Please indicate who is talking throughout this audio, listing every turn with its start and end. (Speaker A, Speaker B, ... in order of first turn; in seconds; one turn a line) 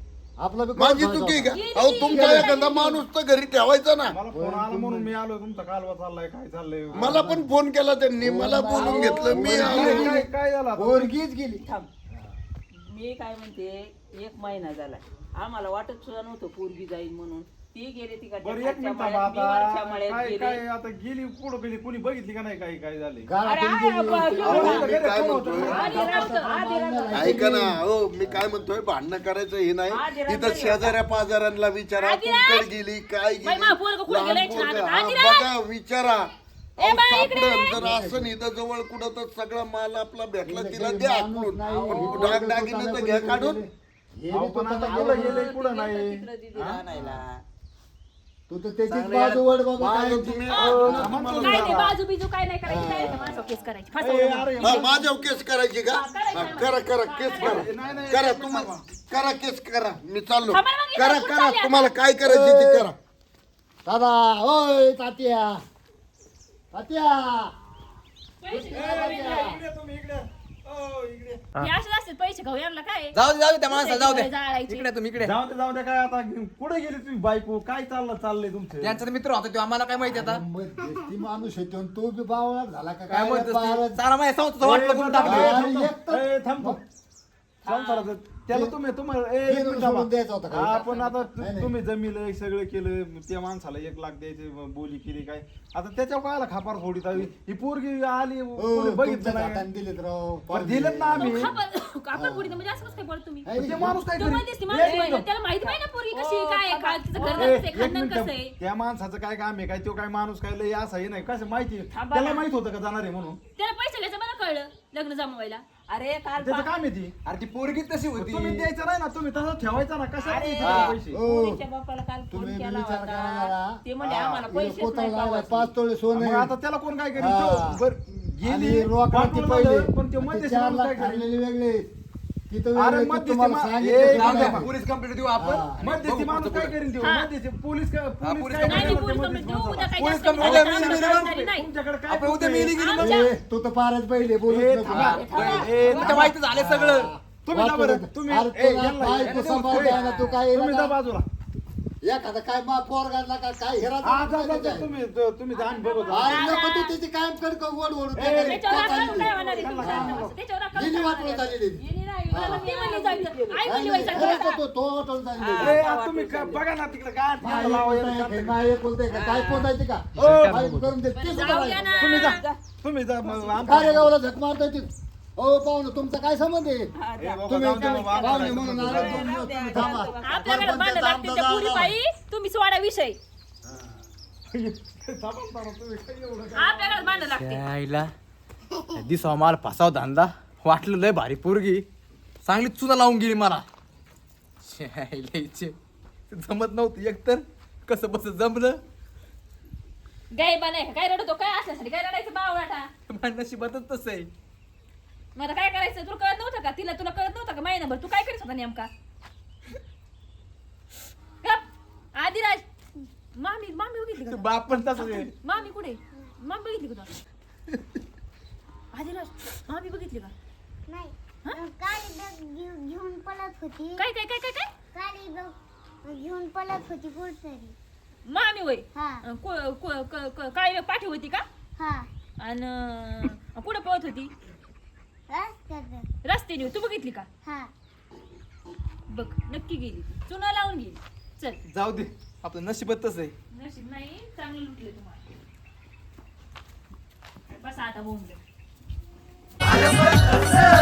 Speaker A: 0.4-2.7
Speaker B: 0.8-4.2
Speaker C: 1.5-3.0
Speaker D: 4.1-7.2
Speaker A: 4.3-5.1
Speaker A: 6.9-7.5
Speaker B: 6.9-10.1
Speaker A: 8.2-12.3
Speaker E: 8.8-9.3
Speaker D: 8.8-11.1
Speaker E: 11.6-11.9
Speaker E: 12.7-20.6
Speaker D: 18.4-23.3
Speaker A: 23.2-24.9
Speaker E: 23.4-24.9
Speaker D: 24.3-26.1
Speaker B: 24.4-25.9
Speaker A: 25.5-28.7
Speaker E: 25.7-27.4
Speaker B: 27.1-43.6
Speaker E: 29.9-31.0
Speaker C: 32.0-32.7
Speaker C: 33.4-35.5
Speaker C: 36.8-37.8
Speaker A: 37.7-38.3
Speaker A: 40.4-43.7
Speaker E: 41.8-42.3
Speaker A: 44.2-45.5
Speaker D: 44.3-46.9
Speaker E: 44.9-47.4
Speaker A: 46.9-47.2
Speaker A: 48.5-51.2
Speaker B: 48.9-51.8
Speaker C: 50.5-54.9
Speaker D: 50.5-51.9
Speaker A: 52.6-53.6
Speaker D: 54.0-55.2
Speaker B: 54.6-63.0
Speaker C: 55.9-57.7
Speaker D: 57.3-58.8
Speaker A: 57.8-58.1
Speaker C: 60.5-61.9
Speaker A: 62.2-62.9
Speaker A: 63.8-65.6
Speaker A: 66.7-67.5
Speaker C: 68.4-69.5
Speaker A: 68.5-69.6
Speaker D: 68.7-71.5
Speaker C: 71.6-73.2
Speaker F: 73.1-75.3
Speaker C: 73.7-74.9
Speaker D: 75.2-79.1
Speaker F: 78.8-80.4
Speaker A: 80.0-84.0
Speaker F: 83.1-85.5
Speaker D: 84.6-86.8
Speaker A: 85.2-86.8
Speaker E: 87.6-88.1
Speaker D: 87.6-99.7
Speaker A: 88.5-88.7
Speaker A: 89.5-91.7
Speaker A: 98.6-101.5
Speaker D: 100.5-101.5
Speaker C: 101.2-103.5
Speaker A: 102.1-102.8
Speaker A: 103.4-104.0
Speaker D: 103.5-105.3
Speaker C: 104.1-108.5
Speaker E: 105.6-107.6
Speaker D: 107.3-113.4
Speaker C: 111.9-112.5
Speaker C: 113.5-115.6
Speaker E: 115.9-116.7
Speaker D: 116.4-117.2
Speaker F: 117.2-118.7
Speaker D: 118.1-121.2
Speaker E: 120.2-125.7
Speaker F: 120.6-120.9
Speaker A: 121.1-121.6
Speaker A: 122.3-126.5
Speaker D: 126.1-131.2
Speaker A: 127.2-127.8
Speaker A: 128.4-131.9
Speaker A: 132.5-134.7
Speaker D: 132.7-134.7
Speaker F: 134.0-136.8
Speaker A: 135.3-135.8
Speaker D: 135.8-142.8
Speaker C: 137.0-137.3
Speaker F: 138.2-139.1
Speaker C: 138.6-141.7
Speaker F: 140.4-141.0
Speaker F: 142.1-143.0
Speaker C: 142.8-143.3
Speaker A: 143.0-145.6
Speaker D: 144.5-146.5
Speaker F: 144.9-147.1
Speaker E: 145.2-145.6
Speaker C: 145.3-146.2
Speaker A: 146.5-150.9
Speaker D: 147.4-150.0
Speaker F: 149.3-149.9
Speaker E: 149.9-150.4
Speaker D: 150.5-151.2
Speaker A: 152.0-154.9
Speaker D: 154.0-156.4
Speaker C: 155.6-156.9
Speaker A: 156.1-162.7
Speaker E: 156.1-156.5
Speaker D: 158.1-160.4
Speaker C: 158.4-161.5
Speaker E: 161.8-164.6
Speaker C: 162.3-164.5
Speaker A: 163.6-165.8
Speaker E: 165.3-166.6
Speaker D: 165.6-168.6
Speaker A: 167.4-171.9
Speaker E: 169.1-169.7
Speaker F: 170.1-171.0
Speaker D: 170.2-170.6
Speaker E: 171.1-172.6
Speaker C: 171.3-172.4
Speaker D: 172.0-174.1
Speaker E: 173.2-173.9
Speaker A: 173.6-176.9
Speaker E: 177.0-180.8
Speaker D: 177.2-179.2
Speaker A: 177.5-181.9
Speaker C: 179.8-183.2
Speaker A: 183.6-183.9
Speaker D: 184.5-187.3
Speaker C: 186.5-187.7
Speaker F: 187.3-188.1
Speaker F: 188.9-191.8
Speaker F: 192.4-193.7
Speaker F: 194.6-195.8
Speaker F: 196.3-198.8
Speaker C: 200.3-202.9
Speaker F: 203.1-204.3
Speaker C: 205.3-208.9
Speaker C: 212.1-212.6
Speaker C: 213.3-217.1
Speaker D: 214.4-215.3
Speaker C: 218.9-220.3
Speaker G: 220.9-224.0
Speaker C: 224.0-224.7
Speaker G: 224.9-227.8
Speaker C: 228.2-231.4
Speaker G: 228.9-229.2
Speaker G: 231.8-232.1
Speaker C: 232.4-234.3
Speaker G: 235.3-236.1
Speaker C: 236.2-237.3
Speaker G: 237.4-237.7
Speaker C: 239.1-241.6
Speaker D: 241.7-242.1
Speaker F: 242.4-243.3
Speaker C: 243.5-245.2
Speaker C: 247.6-248.4